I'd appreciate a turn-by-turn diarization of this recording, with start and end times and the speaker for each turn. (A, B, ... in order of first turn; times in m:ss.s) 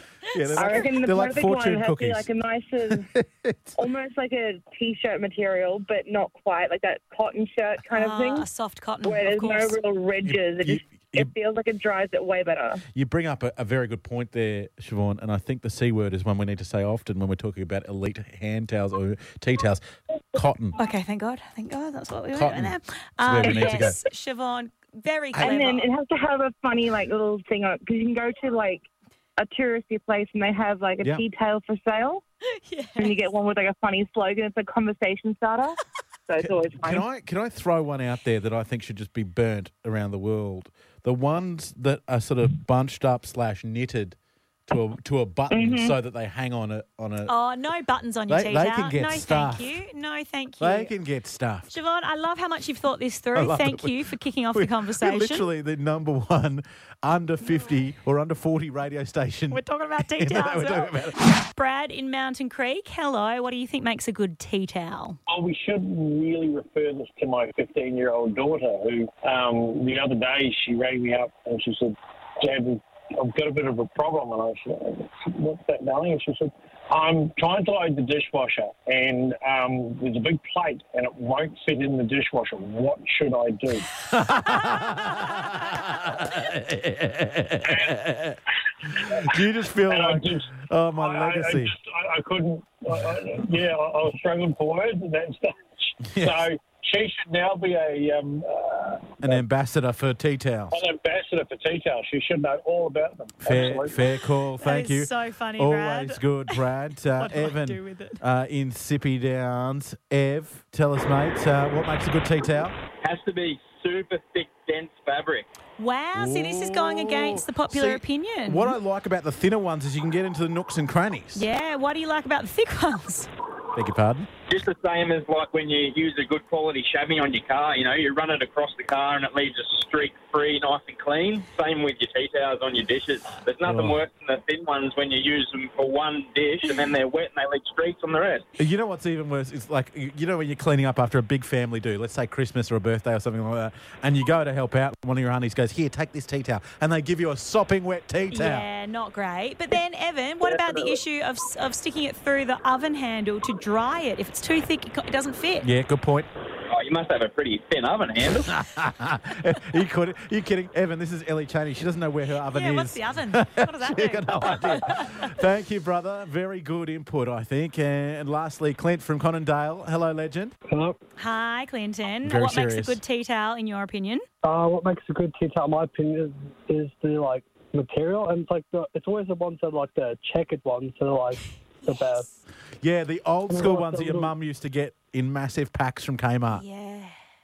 0:00.3-0:02.3 A
0:00.5-0:03.1 B
0:02.9-0:03.8 A
0:03.8-0:08.5 B
0:07.8-0:09.8 C
0:09.0-0:12.8 B
0:10.2-0:11.3 A
0:12.9-0:20.8 A
0:20.8-0:25.9 C
0:22.3-0:24.0 A
0:23.4-0:23.9 B
0:25.4-0:28.9 B
0:29.4-0:32.2 B
0:32.6-0:33.2 C
0:33.0-0:37.0 B
0:36.4-0:44.2 A
0:44.7-0:47.3 A
0:45.5-0:45.9 B
0:47.3-0:50.9 C
0:48.3-0:49.8 A
0:50.6-0:51.7 A
0:51.7-0:55.5 C
0:53.3-1:01.2 A
0:59.5-1:05.2 C
1:05.3-1:23.9 D
1:24.1-1:31.7 A
1:28.8-1:29.3 D
1:29.9-1:39.4 D
1:36.1-1:36.5 A
1:39.2-1:40.8 A
1:40.7-1:44.0 D
1:43.4-1:52.8 A
1:44.6-1:46.6 C
1:47.2-1:48.2 C
1:53.0-1:55.5 E
1:55.8-1:58.8 C
1:56.2-2:01.4 A
2:01.4-2:03.3 C
2:03.7-2:04.3 A
2:04.5-2:18.5 E
2:13.6-2:14.0 A
2:18.6-2:28.7 A
2:28.3-2:35.7 C
2:35.6-2:36.3 A
2:36.7-2:38.5 E
2:38.5-2:50.5 A
2:42.5-2:45.2 C
2:50.7-2:51.0 F
2:51.2-2:54.3 C
2:52.2-2:53.0 A
2:54.4-3:02.3 F
3:01.8-3:02.4 C
3:02.8-3:06.6 A
3:03.5-3:04.3 F
3:06.5-3:07.2 C